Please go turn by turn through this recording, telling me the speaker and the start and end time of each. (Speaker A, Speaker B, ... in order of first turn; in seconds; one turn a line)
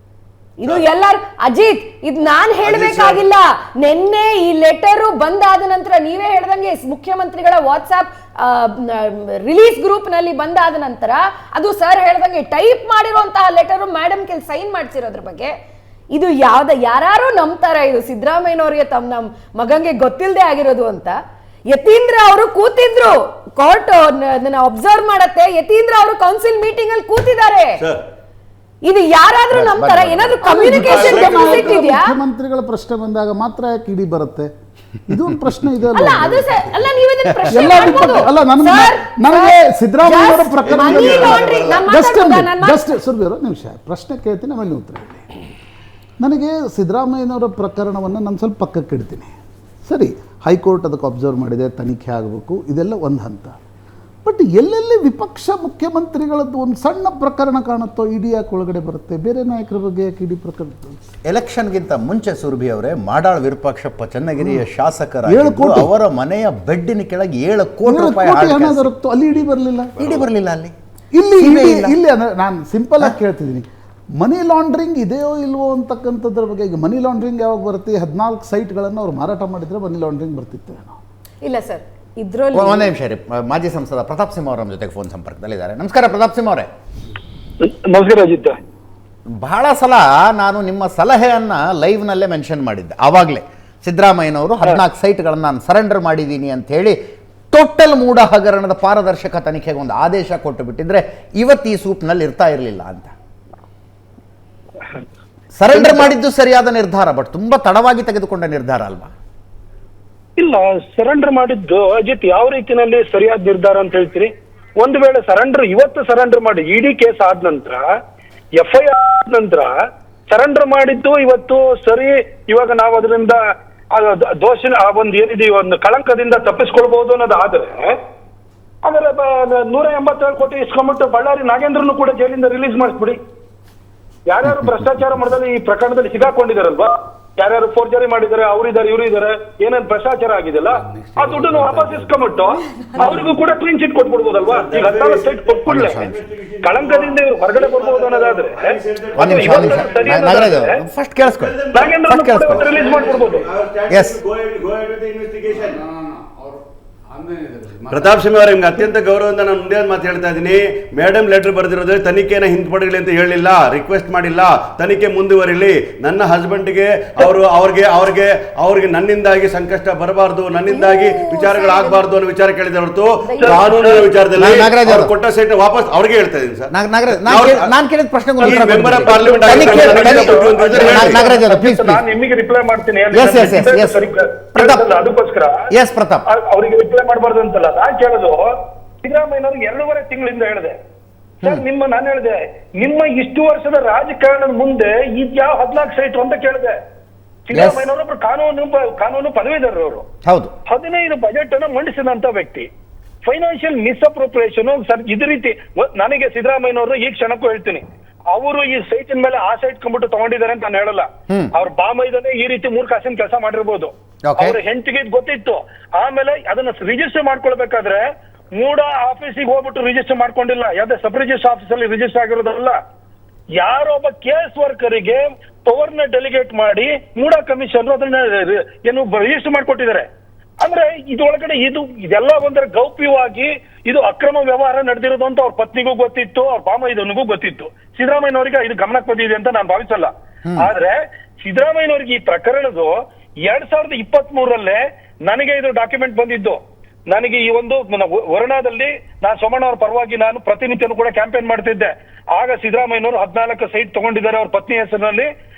Speaker A: 0.6-15.5
Speaker B: 2.6-3.2
Speaker A: 16.1-27.8
Speaker B: 27.8-28.0
Speaker A: 28.8-32.1
Speaker C: 29.5-30.4
Speaker D: 30.4-34.5
Speaker B: 30.6-31.8
Speaker D: 35.1-36.4
Speaker A: 35.9-42.9
Speaker D: 37.5-45.3
Speaker B: 37.9-38.2
Speaker B: 40.2-41.8
Speaker D: 46.2-49.3
Speaker D: 49.9-53.6
Speaker D: 54.2-61.0
Speaker C: 61.2-68.9
Speaker D: 64.4-64.6
Speaker D: 65.2-65.9
Speaker D: 67.9-70.0
Speaker B: 70.0-70.3
Speaker C: 70.0-70.7
Speaker D: 71.1-81.0
Speaker C: 71.3-72.0
Speaker A: 81.4-82.9
Speaker C: 82.5-86.7
Speaker E: 87.6-88.5
Speaker C: 89.4-97.0
Speaker C: 97.5-103.1
Speaker C: 105.6-109.1
Speaker E: 105.7-106.1
Speaker E: 110.4-117.8
Speaker E: 118.6-119.7
Speaker E: 120.3-123.4
Speaker E: 123.9-127.9
Speaker E: 128.8-133.2
Speaker E: 134.3-146.0
Speaker B: 140.7-142.1
Speaker B: 143.0-143.3
Speaker B: 144.4-150.4
Speaker C: 145.7-146.2
Speaker E: 146.6-150.8
Speaker C: 149.2-152.7
Speaker B: 151.2-155.8
Speaker E: 151.7-153.5
Speaker C: 153.9-154.2
Speaker D: 155.8-156.6
Speaker D: 157.1-158.1
Speaker B: 157.8-177.7
Speaker A: 170.6-172.0
Speaker A: 173.2-173.7
Speaker E: 173.4-174.1
Speaker C: 174.3-175.1
Speaker C: 176.7-182.0
Speaker E: 178.4-185.6
Speaker B: 178.4-181.2
Speaker C: 183.1-184.8
Speaker C: 185.7-186.2
Speaker E: 186.3-188.5
Speaker E: 189.0-190.7
Speaker E: 191.4-196.7
Speaker E: 197.5-200.0
Speaker C: 197.5-197.8
Speaker C: 200.2-200.5
Speaker E: 200.7-202.7
Speaker E: 203.2-218.0
Speaker C: 214.2-214.6
Speaker E: 218.6-222.8
Speaker E: 223.6-230.1
Speaker E: 230.6-242.9
Speaker E: 243.4-246.6
Speaker E: 247.1-255.3